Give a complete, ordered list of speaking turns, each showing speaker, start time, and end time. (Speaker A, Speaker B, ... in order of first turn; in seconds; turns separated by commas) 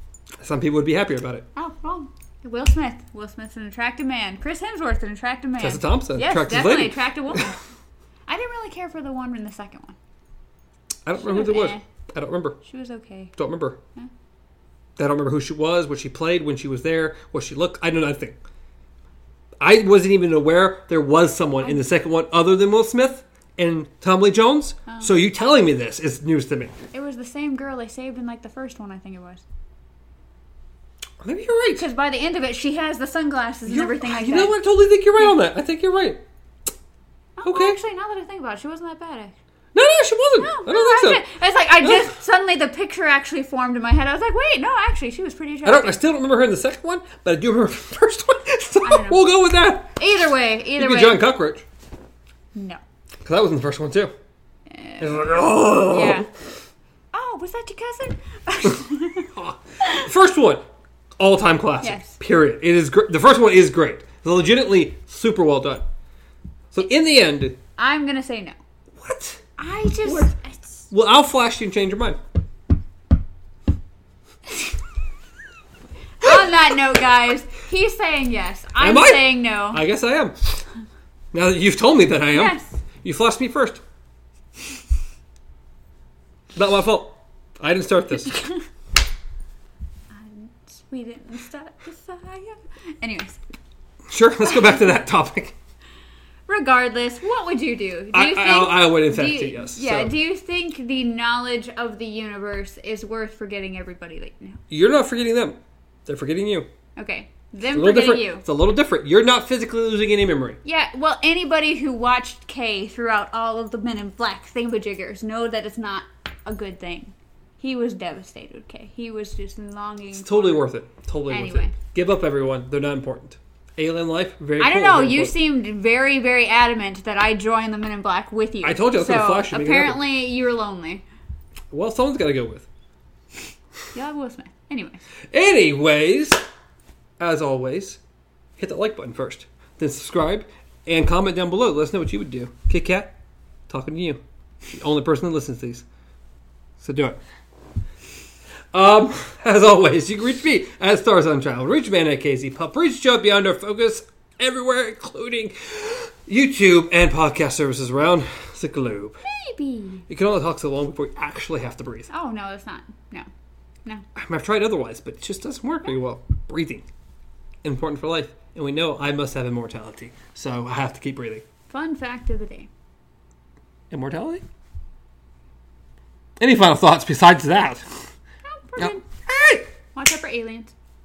Speaker A: 0.4-1.4, Speaker B: 1.5-7.6, Speaker A: 5.6-7.5, Speaker B: 8.3-10.0, Speaker A: 11.1-12.6, Speaker B: 11.1-11.8, Speaker B: 12.6-13.3, Speaker A: 13.4-13.8, Speaker A: 15.0-18.4, Speaker A: 19.6-26.7, Speaker B: 26.9-29.4, Speaker A: 31.2-31.8, Speaker B: 31.8-34.5, Speaker A: 33.7-36.2, Speaker B: 37.4-39.4, Speaker A: 37.4-37.8, Speaker A: 39.7-41.2, Speaker B: 40.4-46.0, Speaker A: 41.8-42.1, Speaker A: 45.6-50.0, Speaker B: 48.8-49.2, Speaker B: 50.0-51.2, Speaker A: 50.8-51.6, Speaker B: 52.5-52.8, Speaker A: 53.2-54.1, Speaker B: 54.7-56.3, Speaker A: 55.0-56.3, Speaker B: 57.1-60.1, Speaker A: 59.4-60.6, Speaker A: 61.2-65.8, Speaker B: 61.8-62.2, Speaker A: 66.7-67.6, Speaker B: 67.8-68.6, Speaker A: 69.0-69.4, Speaker B: 69.6-70.9, Speaker A: 70.0-70.3, Speaker A: 70.9-72.2, Speaker B: 76.2-79.8, Speaker A: 78.8-80.6, Speaker A: 81.3-83.8, Speaker B: 82.3-82.8, Speaker A: 86.5-88.4, Speaker B: 90.1-93.4, Speaker A: 94.1-95.5, Speaker B: 96.5-104.6, Speaker A: 98.1-100.1, Speaker A: 104.7-106.7, Speaker B: 107.0-108.4, Speaker A: 107.7-110.6, Speaker B: 110.6-120.7, Speaker A: 120.1-125.4, Speaker B: 121.3-121.7, Speaker B: 124.6-131.0, Speaker A: 128.6-130.0, Speaker A: 131.7-132.7, Speaker B: 133.9-135.0, Speaker A: 135.3-136.4, Speaker A: 137.2-138.0, Speaker A: 138.6-143.1, Speaker A: 143.7-145.8, Speaker A: 146.8-147.2, Speaker A: 148.7-159.2, Speaker B: 159.2-160.0, Speaker A: 160.1-162.1, Speaker B: 162.1-163.3, Speaker A: 164.1-166.8, Speaker A: 167.6-171.4, Speaker B: 171.7-172.7, Speaker A: 173.9-174.4, Speaker A: 176.4-177.9, Speaker B: 178.4-179.1, Speaker A: 178.8-179.7, Speaker B: 179.9-180.7